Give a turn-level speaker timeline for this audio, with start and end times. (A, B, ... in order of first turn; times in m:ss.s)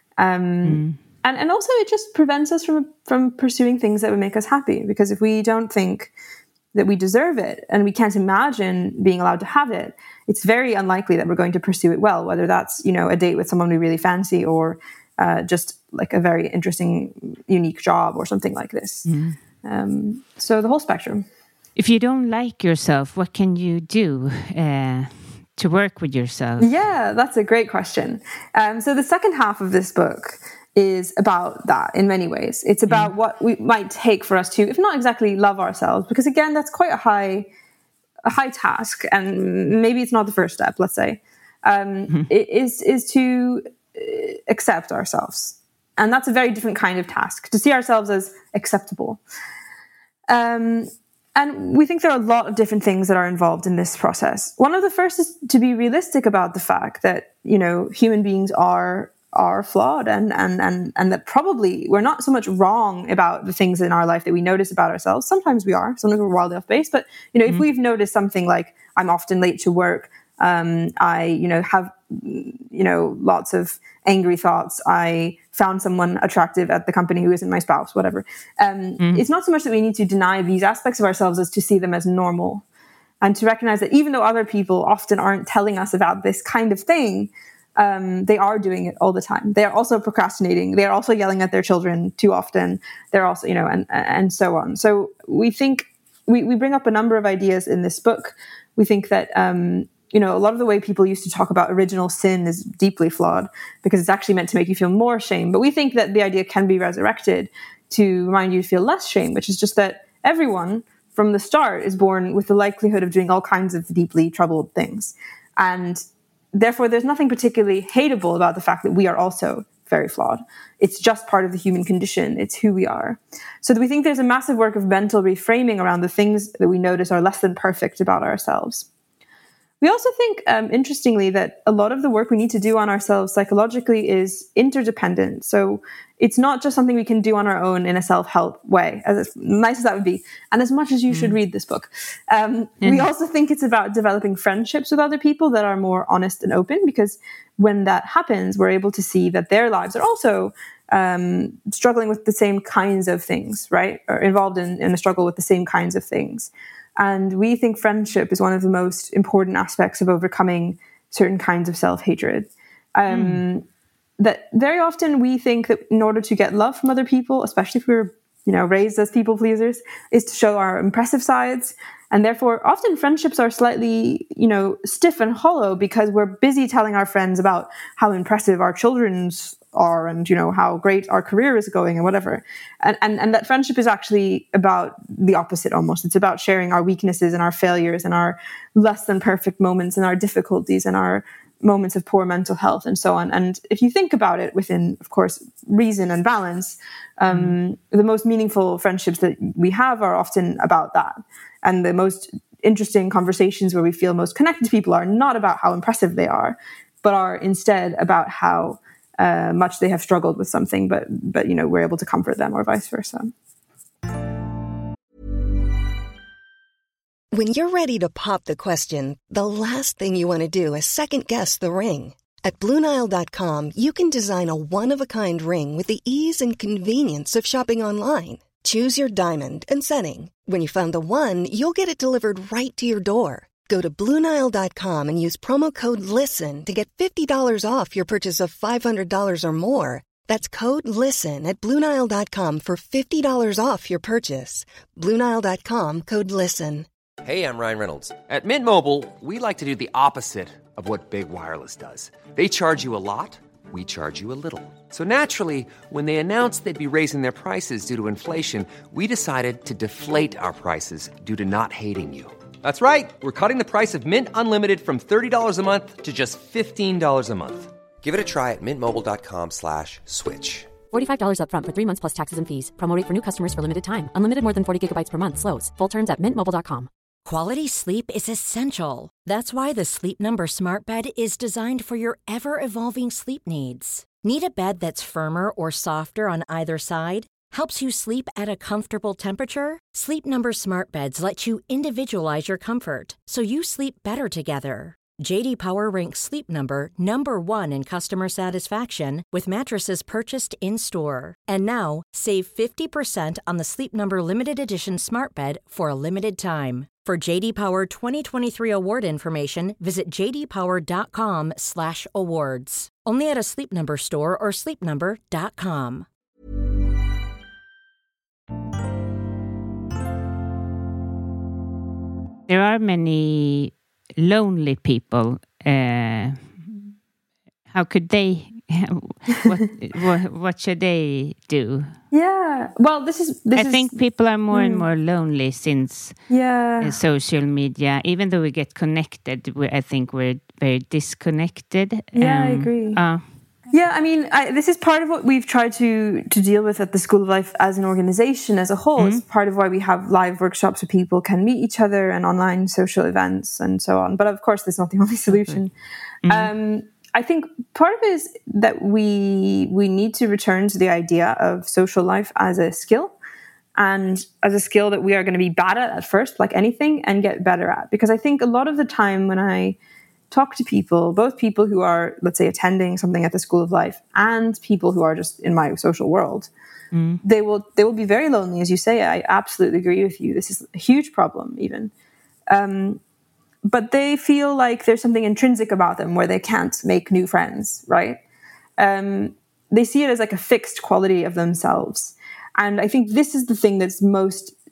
0:00.2-0:06.1 A
0:00.6-0:01.0 B
0:06.7-0:19.1 A
0:19.1-0:19.4 B
0:19.6-0:21.2 A
0:21.8-0:26.7 B
0:26.6-0:37.5 A
0:38.2-0:49.2 A
0:50.3-1:22.6 A
1:19.0-1:19.2 B
1:23.2-1:56.0 A
1:56.5-2:08.9 A
2:09.8-2:43.6 A
2:21.1-2:21.4 B
2:22.8-2:23.1 B
2:43.1-2:43.4 B
2:44.2-3:33.3 A
3:17.3-3:17.6 B
3:37.3-4:06.9 C
4:07.2-4:30.8 D
4:30.9-4:36.9 E
4:37.2-5:16.1 F
5:22.5-5:26.9 B
5:27.7-5:31.9 B
5:32.1-5:34.0 A
5:33.6-5:36.2 B
5:34.5-5:34.9 A
5:36.3-5:36.9 A
5:36.8-5:43.2 B
5:42.2-5:43.0 A
5:43.7-5:55.7 A
5:49.0-5:49.2 B
5:55.3-5:55.6 B
5:56.2-5:56.5 B
5:56.3-6:03.1 A
6:03.8-6:09.8 A
6:10.3-6:16.5 A
6:16.9-6:17.2 B
6:17.2-6:21.9 A
6:22.5-6:23.0 A
6:23.6-6:28.2 A
6:28.8-6:34.6 A